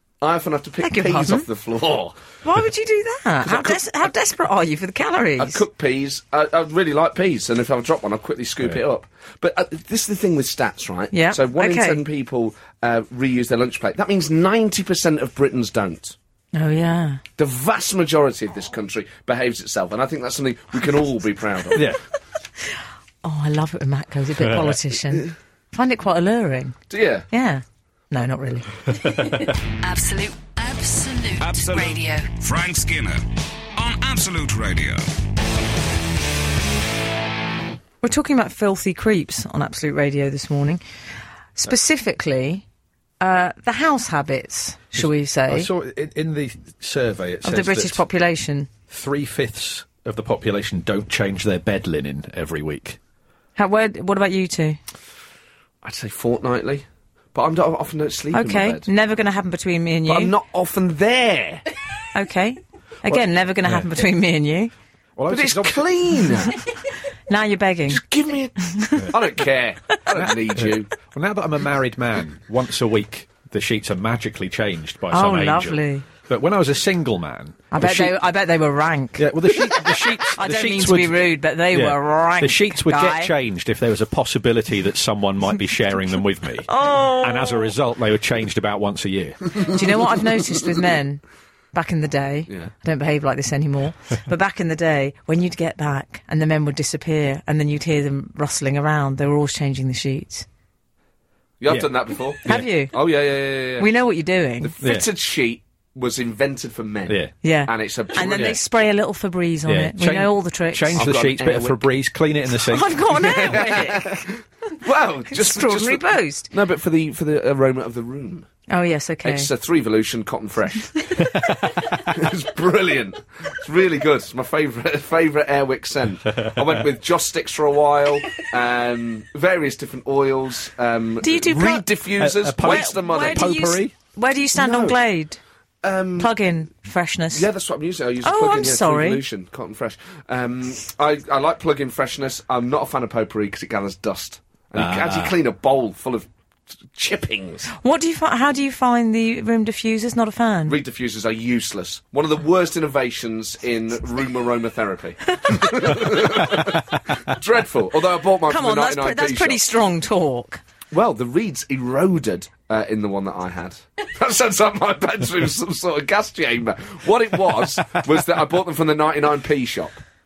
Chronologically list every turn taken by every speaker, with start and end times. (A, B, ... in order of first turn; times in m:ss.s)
0:00.2-0:02.2 A
0:00.8-0:01.4 B
0:02.4-0:05.6 B
0:03.4-0:03.8 A
0:05.4-0:16.2 A
0:11.1-0:12.0 B
0:16.5-0:17.2 B
0:17.4-0:21.9 A
0:23.2-0:28.8 B
0:24.4-0:24.7 C
0:26.9-0:27.3 A
0:28.9-0:29.6 C
0:29.8-0:32.3 D
0:31.4-0:33.2 E
0:33.8-0:35.1 E
0:38.0-0:40.8 B
0:41.6-0:42.6 B
0:43.2-0:45.7 B
0:45.0-0:48.0 C
0:47.4-0:48.7 B
0:48.9-0:53.0 C
0:53.6-0:54.8 B
0:55.8-0:58.9 A
0:58.3-1:00.3 B
1:00.1-1:01.6 A
1:02.1-1:04.7 B
1:03.1-1:03.9 C
1:05.2-1:05.8 C
1:05.3-1:06.6 A
1:07.3-1:08.0 B
1:07.9-1:10.9 A
1:08.7-1:09.1 B
1:10.1-1:18.2 C
1:15.1-1:16.1 B
1:17.7-1:23.3 B
1:19.2-1:29.8 C
1:26.7-1:27.7 B
1:29.6-1:31.2 B
1:31.7-1:40.5 B
1:41.6-1:43.9 A
1:42.5-1:43.0 B
1:43.8-1:44.7 B
1:44.6-1:48.6 A
1:44.8-1:45.1 C
1:47.4-1:51.0 B
1:48.2-1:48.6 C
1:49.7-1:53.6 C
1:51.0-1:51.8 A
1:52.6-1:54.3 B
1:53.1-1:54.3 A
1:54.8-1:58.5 A
1:55.3-1:56.5 B
1:58.7-1:59.5 B
1:59.2-2:13.6 A
2:01.3-2:02.1 C
2:11.2-2:11.9 B
2:12.2-2:13.9 C
2:12.6-2:15.4 B
2:14.6-2:15.0 A
2:15.8-2:16.3 A
2:16.2-2:17.5 B
2:17.3-2:26.3 A
2:18.2-2:19.2 B
2:24.8-2:25.4 C
2:26.9-2:27.7 A
2:27.8-2:30.8 B
2:30.7-2:39.6 A
2:38.5-2:40.6 B
2:40.9-2:50.0 A